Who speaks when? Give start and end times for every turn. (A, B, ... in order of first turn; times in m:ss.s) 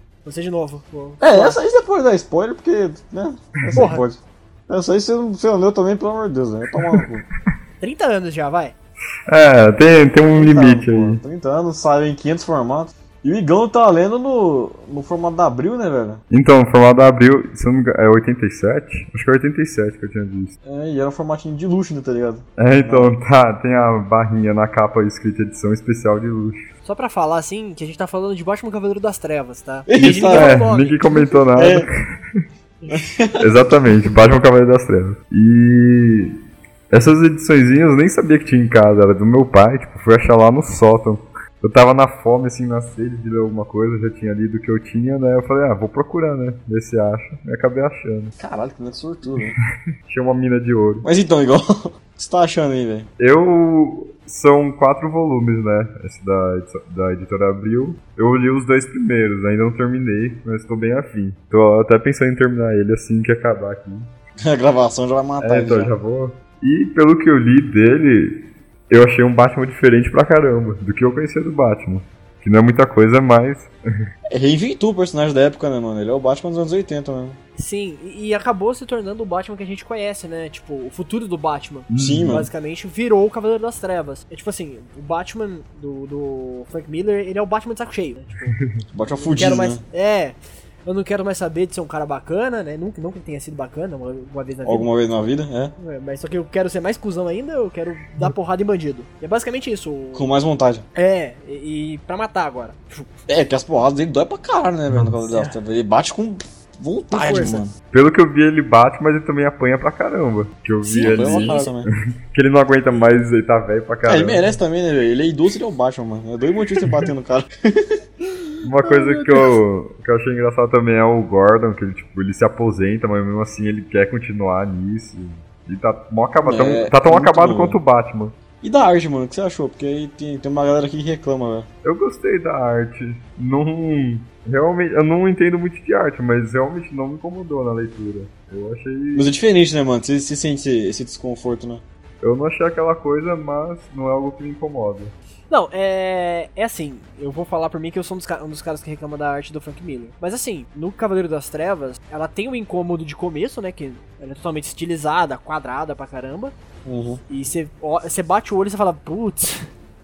0:00.2-0:01.6 A
0:01.2-0:07.2 B
0:03.6-0:03.9 C
0:03.7-0:04.0 A
0:06.8-0:07.0 C
0:07.8-0:08.7 A
0:09.3-0:11.2 C
0:10.3-0:16.2 B
0:16.3-0:20.5 C
0:20.6-0:23.1 B
0:22.6-0:26.6 C
0:26.8-0:31.3 A
0:29.9-0:30.7 B
0:30.0-0:32.4 C
0:31.5-0:31.9 B
0:32.9-0:33.8 B
0:33.4-0:36.4 C
0:36.9-0:48.3 C
0:48.4-0:49.6 B
0:50.1-0:51.1 C
0:51.0-0:53.1 B
0:53.2-1:04.1 C
1:04.4-1:05.9 B
1:05.4-1:13.7 C
1:14.3-1:17.4 B
1:17.6-1:28.6 A
1:21.9-1:22.4 C
1:22.0-1:22.5 B
1:28.9-1:29.8 B
1:29.2-1:34.9 A
1:34.6-1:35.7 B
1:35.8-1:40.3 A
1:40.1-1:40.8 B
1:40.9-1:43.1 A
1:43.3-1:47.7 B
1:47.1-1:47.6 A
1:47.9-1:54.5 C
1:50.8-1:51.7 A
1:51.0-1:51.9 B
1:54.0-1:59.4 B
1:58.6-2:08.3 C
2:06.4-2:07.8 B
2:08.6-2:11.7 B
2:11.8-2:19.3 C
2:19.1-2:21.8 B
2:22.2-2:25.1 C
2:25.5-2:36.5 A
2:36.8-2:37.2 B
2:37.3-2:39.7 A